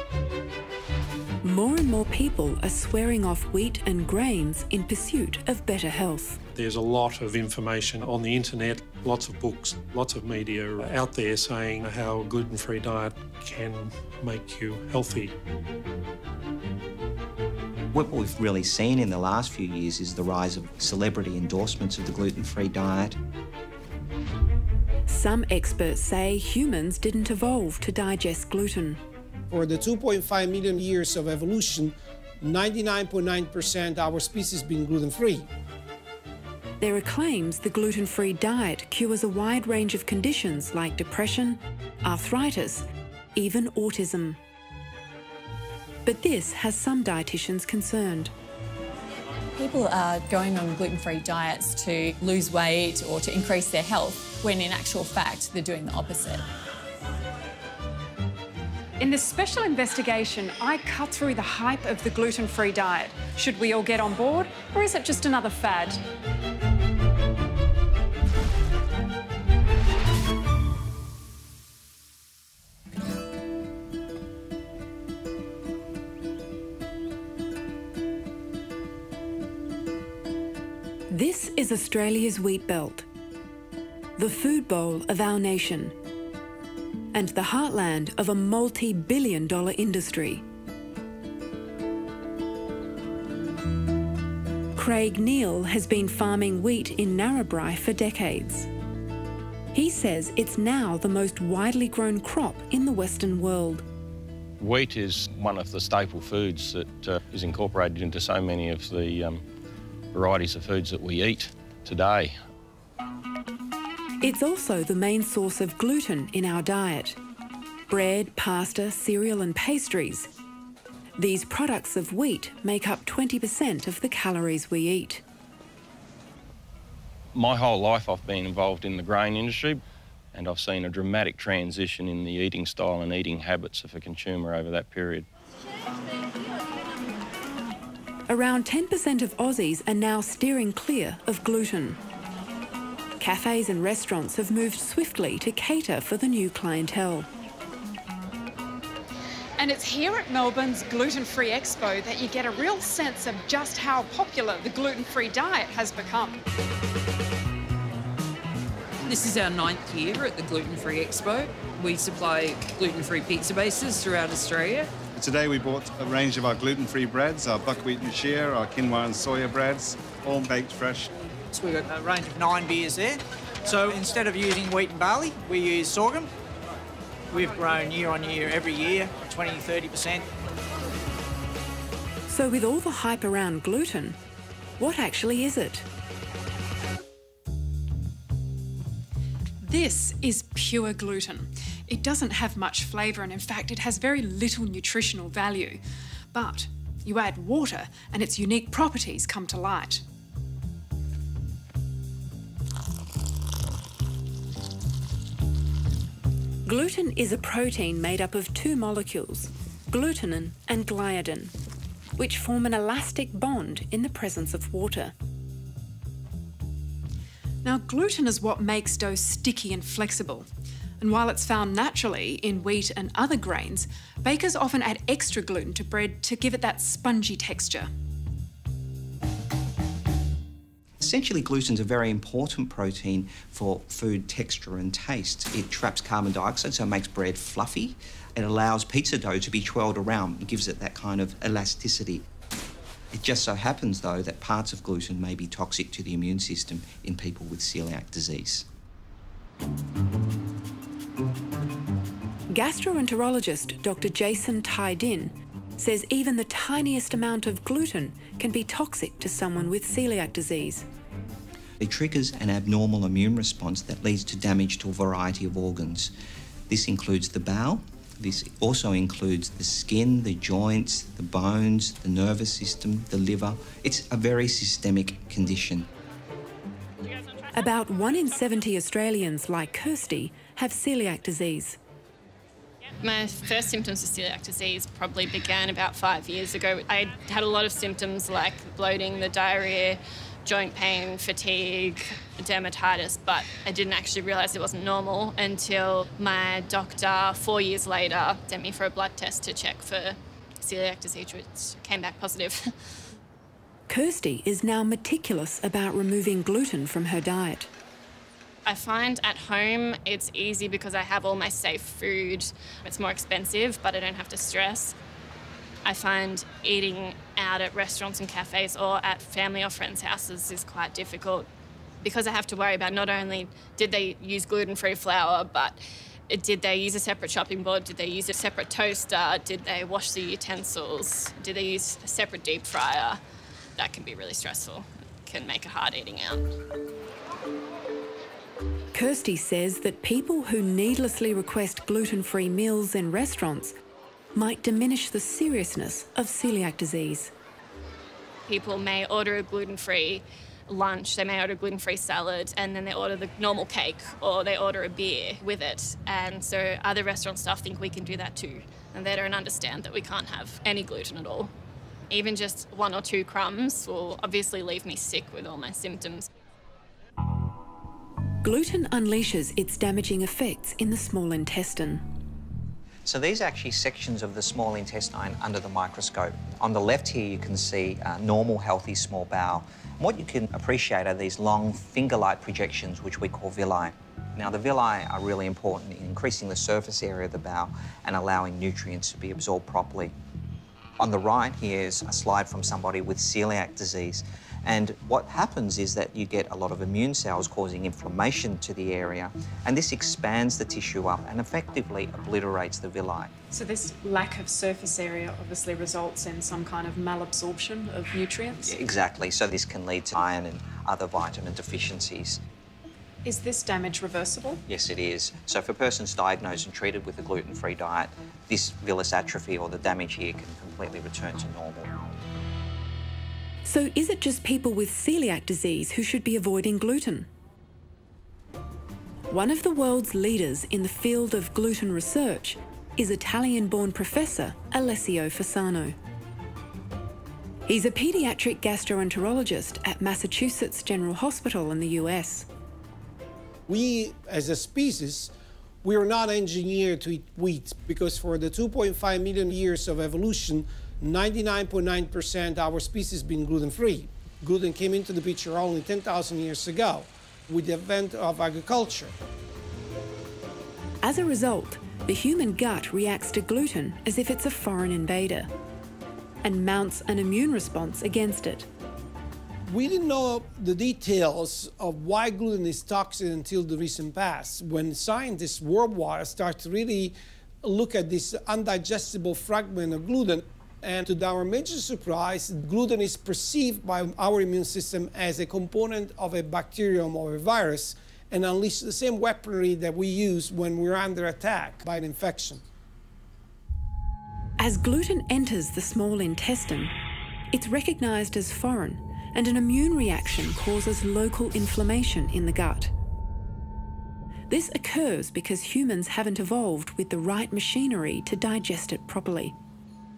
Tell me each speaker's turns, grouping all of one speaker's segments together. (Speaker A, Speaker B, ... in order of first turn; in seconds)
Speaker A: 1.4-6.4, 25.1-29.0, 36.8-44.4, 46.0-48.3, 81.1-83.1, 84.2-86.0, 87.1-90.4, 94.8-98.7, 99.7-103.8, 114.2-117.2, 117.9-120.3, 121.2-125.2, 138.3-142.0, 143.2-147.3, 182.3-184.2, 184.8-185.9, 206.7-211.5, 212.2-215.1, 252.5-260.9, 277.5-281.8, 303.9-307.7, 338.9-343.8, 344.4-347.3, 368.4-372.0, 423.6-427.3, 429.3-436.0, 437.7-442.5, 461.0-465.5, 466.4-468.7, 494.6-496.9, 497.5-502.9, 504.5-509.6
Speaker B: 6.5-15.3
Speaker C: 17.9-23.2, 231.0-242.2, 243.1-248.7, 261.8-266.1, 266.7-275.9, 373.1-390.1, 391.0-403.3, 408.6-412.4, 414.7-422.0
Speaker D: 29.5-35.5, 443.7-445.3, 445.8-459.1, 469.7-492.6
Speaker E: 49.5-56.5
Speaker F: 59.0-66.0, 149.6-156.4, 189.6-195.8, 196.3-200.0, 217.6-220.5, 221.0-227.9, 403.5-408.8, 413.2-414.6
Speaker G: 104.6-109.5, 110.1-112.4, 127.3-129.8, 130.3-135.3
Speaker H: 159.0-164.9
Speaker I: 165.1-171.1
Speaker J: 171.5-176.3, 177.3-180.3
Speaker K: 283.0-302.7, 308.7-315.0, 315.9-321.5, 322.0-333.2, 333.8-336.5, 348.5-361.5, 362.1-366.3